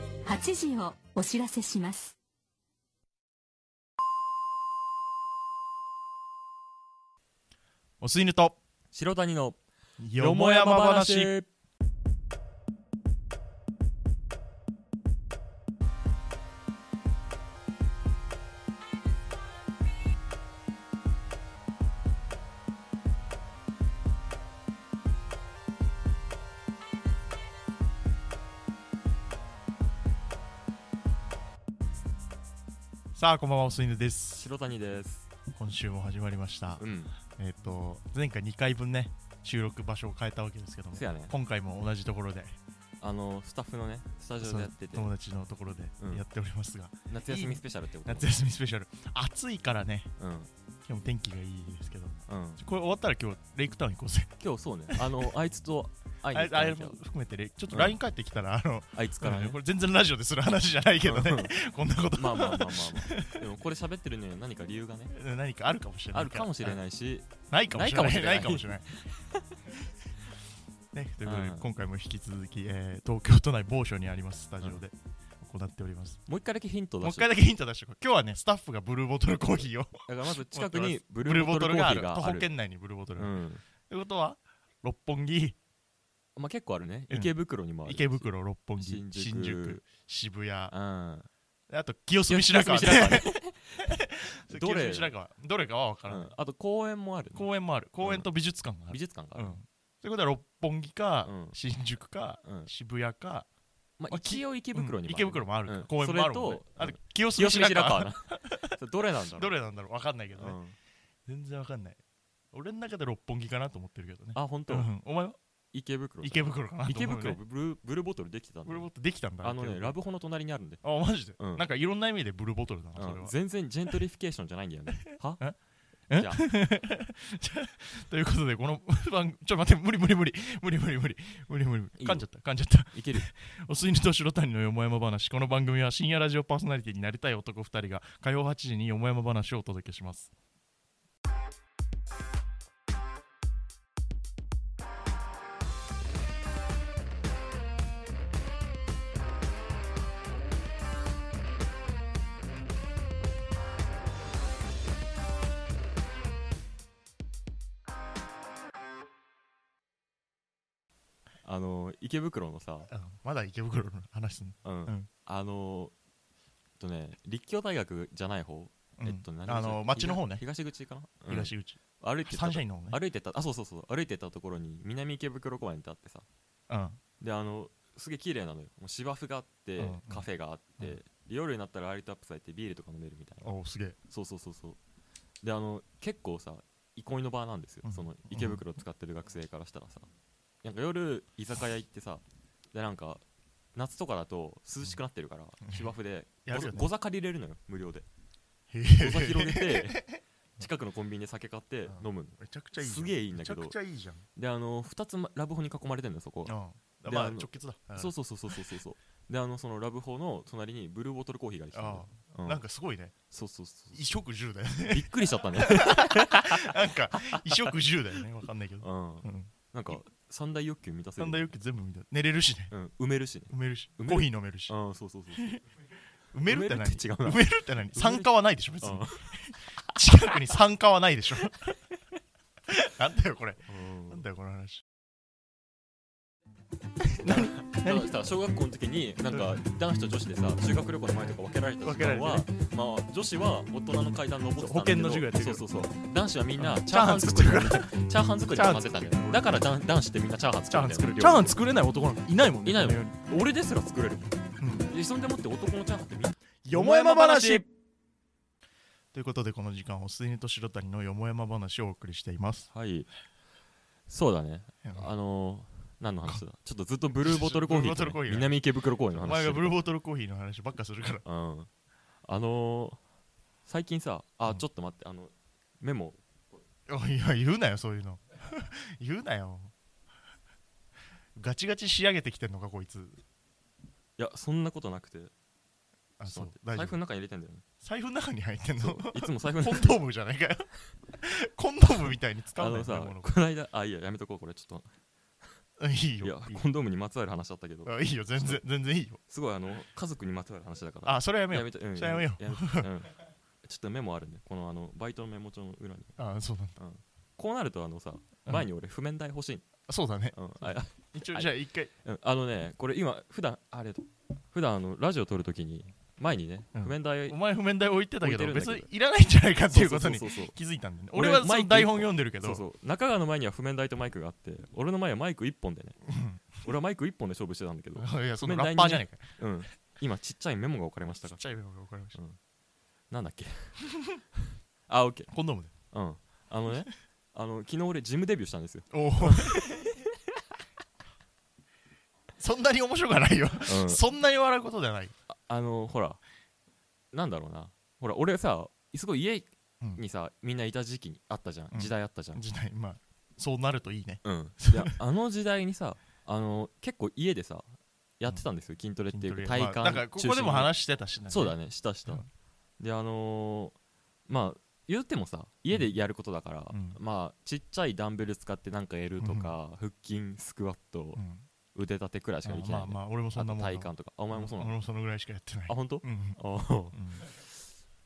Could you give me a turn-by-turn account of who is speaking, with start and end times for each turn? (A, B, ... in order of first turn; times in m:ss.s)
0:00.2-0:02.2 A
0:08.0-0:08.6 B
0:08.9-0:09.6 C
0:10.0-0:11.3 B
0:10.1-0:11.5 C
0:33.1-0:34.4 B
0:34.3-0:35.3 C
0:35.5-0:42.6 B
0:36.8-0:37.1 C
0:40.9-0:41.3 C
0:43.0-0:45.1 C
0:44.4-0:50.1 B
0:47.1-0:48.3 C
0:50.2-0:50.5 C
0:50.9-0:54.3 B
0:52.3-0:52.6 C
0:54.4-0:57.0 C
0:54.9-0:55.3 B
0:56.3-1:03.4 B
0:57.7-0:58.0 C
0:58.9-0:59.6 C
1:01.0-1:01.5 C
1:02.1-1:05.1 C
1:05.1-1:06.8 B
1:06.1-1:09.1 C
1:07.5-1:08.9 B
1:10.9-1:16.2 B
1:11.2-1:11.7 C
1:16.3-1:17.3 C
1:17.0-1:25.6 B
1:20.1-1:22.5 C
1:23.2-1:23.6 C
1:26.4-1:29.9 C
1:27.8-1:30.7 B
1:30.7-1:31.3 C
1:31.7-1:36.3 B
1:32.3-1:35.1 C
1:36.1-1:37.5 C
1:37.3-1:43.5 B
1:38.0-1:38.3 C
1:38.9-1:39.6 C
1:41.2-1:41.6 C
1:42.4-1:42.7 C
1:44.0-1:49.5 C
1:44.1-1:48.7 B
1:49.3-1:50.6 B
1:50.3-1:50.7 C
1:51.2-1:52.0 B
1:52.5-1:55.4 B
1:54.3-1:54.9 C
1:55.7-1:58.9 C
1:56.2-1:57.4 B
1:58.6-1:59.9 B
1:59.4-2:00.8 C
2:00.8-2:03.3 B
2:01.4-2:01.7 C
2:03.0-2:05.4 C
2:06.1-2:20.3 B
2:06.1-2:06.5 C
2:12.0-2:12.2 C
2:12.9-2:13.3 C
2:41.4-2:42.9 C
2:42.9-2:45.1 B
2:44.6-2:45.9 C
2:46.8-2:56.2 C
2:49.0-2:50.4 B
2:51.3-2:53.0 B
2:56.7-2:57.0 B
2:57.2-3:03.5 C
2:59.8-3:00.2 B
3:03.4-3:04.0 B
3:04.1-3:04.8 C
3:05.4-3:10.1 C
3:07.8-3:08.6 B
3:10.6-3:13.2 C
3:13.7-3:18.0 C
3:15.6-3:16.9 B
3:18.7-3:20.2 B
3:19.0-3:23.8 C
3:21.9-3:24.2 B
3:24.4-3:26.5 C
3:26.4-3:28.1 B
3:27.0-3:32.6 C
3:31.7-3:33.2 B
3:33.3-3:34.2 C
3:33.9-3:40.0 B
3:34.9-3:37.7 C
3:38.8-3:41.5 C
3:41.2-3:42.7 B
3:42.7-3:45.6 C
3:43.5-3:44.7 B
3:45.4-3:45.6 B
3:46.3-3:51.6 B
3:46.5-3:50.0 C
3:52.7-3:54.8 B
3:53.7-3:54.2 C
3:57.2-4:11.5 C
3:57.2-3:58.1 B
3:59.3-3:59.6 B
4:01.8-4:02.5 B
4:04.6-4:05.6 B
4:06.6-4:07.9 B
4:08.5-4:09.6 B
4:10.7-4:13.2 B
4:12.6-4:17.6 C
4:14.6-4:14.9 B
4:16.6-4:17.6 B
4:19.1-4:22.7 B
4:22.7-4:23.1 C
4:24.1-4:29.8 C
4:24.8-4:25.1 B
4:27.2-4:28.5 B
4:29.2-4:31.2 B
4:31.2-4:31.7 C
4:32.2-4:33.0 C
4:33.6-4:36.6 C
4:36.9-4:39.7 B
4:41.3-4:43.2 B
4:44.2-4:45.3 C
4:46.2-4:47.0 B
4:46.2-4:47.6 C
4:47.8-4:53.3 B
4:48.8-4:50.0 C
4:52.5-4:54.9 C
4:55.8-4:56.6 B
4:56.2-4:58.6 C
4:57.8-4:59.2 B
4:59.3-5:06.2 C
5:01.0-5:02.9 B
5:06.2-5:06.7 B
5:06.8-5:09.6 C
5:09.9-5:11.9 B
5:10.3-5:11.5 C
5:12.0-5:17.4 C
5:16.7-5:22.6 B
5:18.2-5:18.9 C
5:19.7-5:20.5 C
5:21.1-5:26.0 C
5:26.1-5:26.4 B
5:26.6-5:31.5 C
5:28.0-5:29.3 B
5:31.2-5:32.2 B
5:33.1-5:33.8 C
5:34.9-5:35.3 C
5:35.3-5:35.7 B
5:35.9-5:40.0 C
5:38.9-5:39.8 B
5:42.4-5:45.1 B
5:43.6-5:44.0 C
5:45.3-5:46.2 C
5:47.1-5:52.4 C
5:51.7-5:54.9 B
5:54.2-6:00.7 C
5:59.1-6:01.6 B
6:01.3-6:02.2 C
6:02.8-6:03.8 C
6:04.3-6:11.2 C
6:06.7-6:07.0 B
6:09.2-6:09.5 B
6:11.2-6:11.4 B
6:11.7-6:14.7 C
6:12.4-6:16.4 B
6:15.7-6:17.4 C
6:16.9-6:17.2 B